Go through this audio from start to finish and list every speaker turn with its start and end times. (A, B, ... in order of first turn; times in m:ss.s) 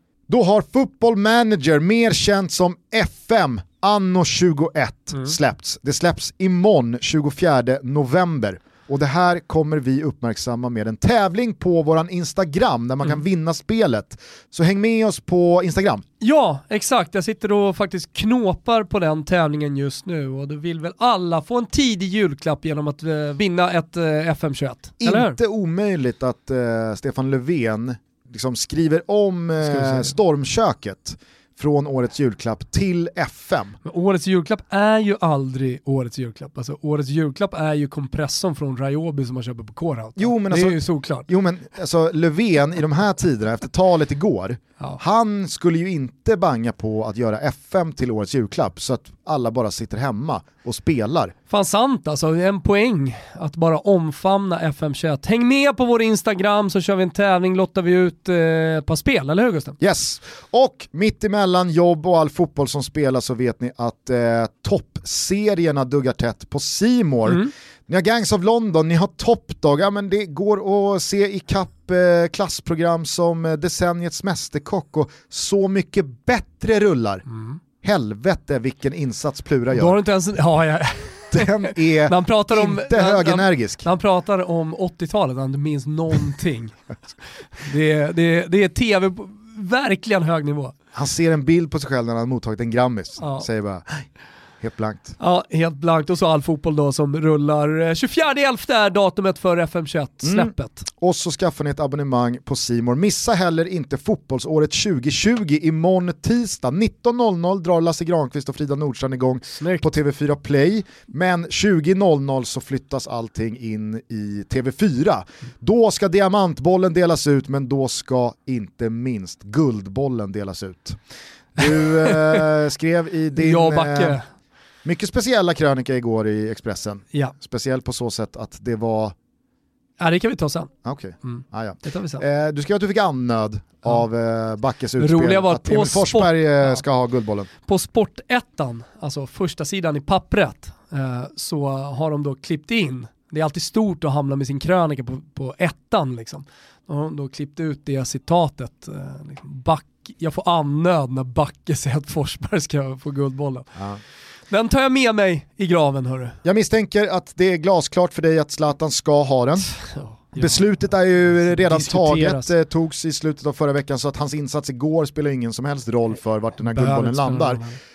0:00.3-0:16.0 A
0:16.2-0:25.4 B
0:25.0-0:33.8 A
0:29.6-0:30.1 B
0:33.8-0:41.3 B
0:40.2-0:51.3 A
0:51.5-0:59.8 B
0:59.8-1:17.2 A
1:17.8-1:20.0 A
1:19.7-1:26.8 B
1:21.3-1:23.9 A
1:27.4-1:30.8 B
1:31.0-1:34.1 A
1:33.2-1:33.5 B
1:34.6-1:35.2 A
1:35.2-1:40.8 B
1:40.2-2:01.0 A
1:49.5-1:49.9 B
2:01.6-2:04.2 A
2:02.0-2:02.4 B
2:03.4-2:04.2 B
2:04.8-2:09.1 A
2:10.0-2:10.7 B
2:10.8-2:17.5 A
2:11.2-2:12.2 B
2:15.0-2:16.8 B
2:17.7-2:33.7 B
2:34.5-2:36.4 B
2:36.4-2:39.7 A
2:39.7-2:40.6 B
2:40.4-2:47.6 A
2:41.3-2:42.5 B
2:46.6-2:47.8 B